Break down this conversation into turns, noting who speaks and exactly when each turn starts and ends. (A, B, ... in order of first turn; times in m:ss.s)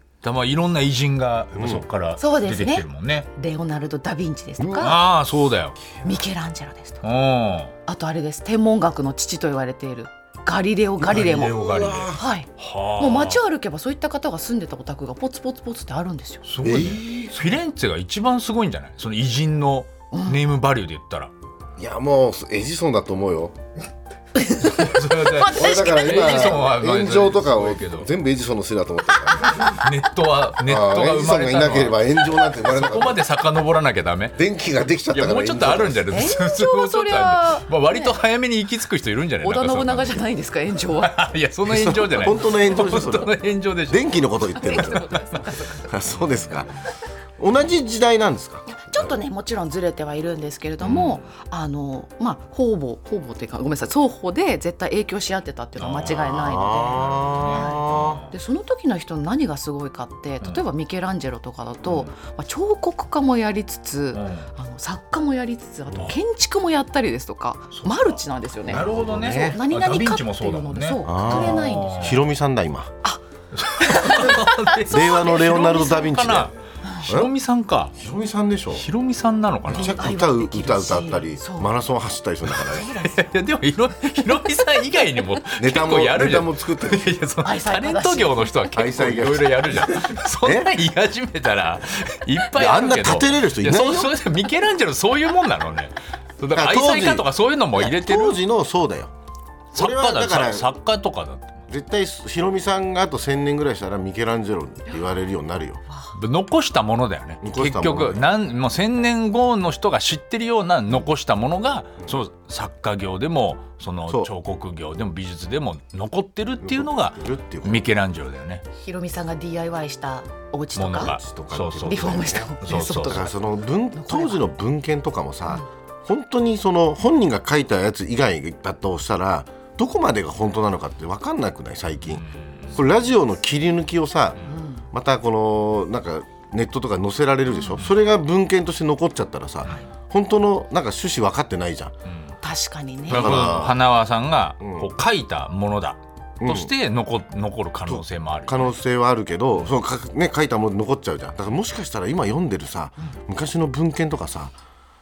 0:00.2-0:03.3 A
0:01.5-0:01.8 B
0:02.2-0:05.0 C
0:04.6-0:04.9 B
0:04.8-0:05.8 A
0:06.0-0:07.0 C
0:07.0-0:07.7 A
0:07.9-0:16.4 C
0:11.0-0:13.4 A
0:11.0-0:12.2 B
0:16.4-0:21.3 A
0:16.6-0:17.4 B
0:20.1-0:20.4 C
0:21.8-0:23.6 B
0:24.4-0:26.5 C
0:24.6-0:28.1 A
0:25.4-0:29.8 B
0:29.7-0:34.4 A
0:30.6-0:33.2 B
0:34.4-0:36.2 B
0:35.1-0:40.3 A
0:36.1-0:38.2 C
0:39.4-0:41.2 C
0:41.0-0:44.1 A
0:41.6-0:43.4 B
0:43.9-0:45.0 B
0:44.5-0:45.8 C
0:44.9-0:45.4 A
0:45.8-0:46.7 B
0:47.4-0:48.7 B
0:48.7-1:12.1 C
0:50.8-0:51.2 A
0:55.8-0:58.3 A
0:56.1-0:58.2 B
1:04.1-1:04.5 A
1:07.7-1:12.2 A
1:08.7-1:09.6 B
1:11.0-1:12.9 B
1:13.5-1:18.0 A
1:13.8-1:15.6 C
1:14.9-1:16.5 B
1:17.1-1:17.3 B
1:18.0-1:18.9 B
1:18.7-1:20.1 A
1:19.7-1:21.7 C
1:19.7-1:22.9 B
1:22.6-1:23.4 C
1:23.0-1:38.4 A
1:24.4-1:25.4 C
1:25.6-1:27.2 B
1:27.4-1:28.8 C
1:28.7-1:30.7 B
1:32.5-1:34.1 B
1:36.5-1:37.3 B
1:37.8-1:39.1 B
1:39.7-1:41.6 A
1:39.7-1:40.7 B
1:41.7-1:45.8 B
1:46.1-1:58.6 A
1:47.4-1:48.2 B
1:56.6-1:57.8 B
1:58.8-2:01.2 C
2:00.8-2:03.3 A
2:01.1-2:12.2 B
2:01.8-2:03.3 C
2:03.9-2:04.4 C
2:12.1-2:12.8 A
2:12.7-2:14.4 B
2:14.4-2:14.8 C
2:14.9-2:21.9 B
2:22.0-2:22.4 A
2:22.4-2:23.5 C
2:23.1-2:28.7 A
2:23.1-2:23.8 B
2:24.6-2:24.9 B
2:26.4-2:26.7 B
2:27.9-2:34.5 B